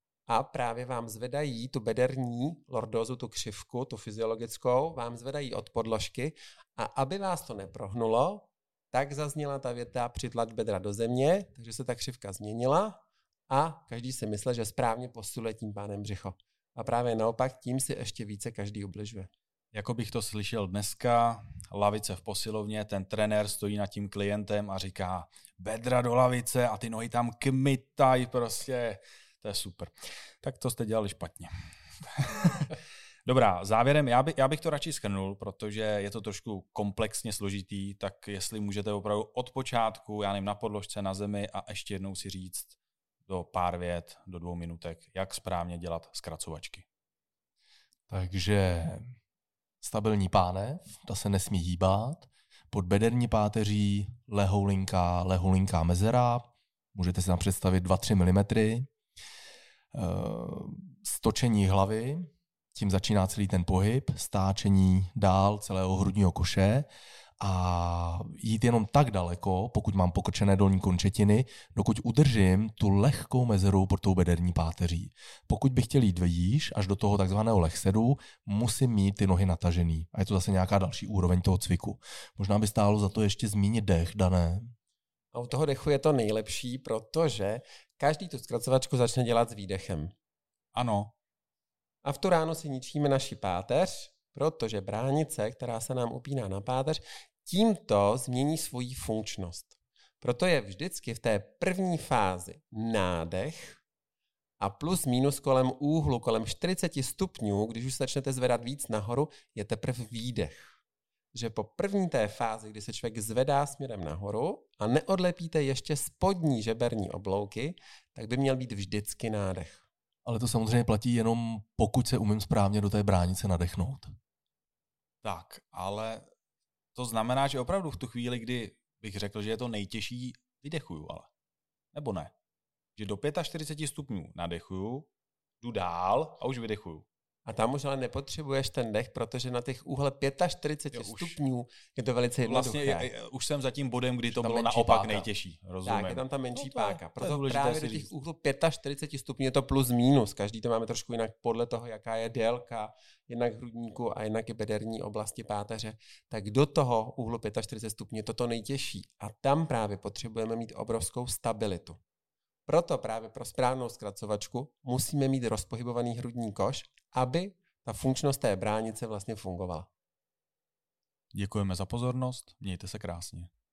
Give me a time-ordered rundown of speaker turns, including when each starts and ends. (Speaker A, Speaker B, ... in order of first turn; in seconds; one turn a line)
Speaker A: 0.3-19.3
Speaker B: 19.7-31.5
Speaker B: 32.0-46.8
Speaker C: 48.1-49.0
Speaker C: 49.8-58.9
Speaker C: 59.9-66.9
Speaker C: 67.4-84.7
Speaker A: 85.3-90.1
Speaker B: 90.7-91.1
Speaker A: 92.0-103.8
Speaker A: 104.6-110.7
Speaker A: 111.3-119.8
Speaker C: 120.2-124.1
Speaker B: 125.2-126.3
Speaker B: 126.9-131.3
Speaker B: 131.9-132.3
Speaker B: 132.9-135.1
Speaker B: 135.6-137.1
Speaker A: 137.4-143.1
Speaker B: 140.9-141.4
Speaker B: 142.4-148.1
Speaker C: 144.3-145.3
Speaker A: 145.8-162.0
Speaker A: 162.7-169.9
Speaker B: 171.3-173.5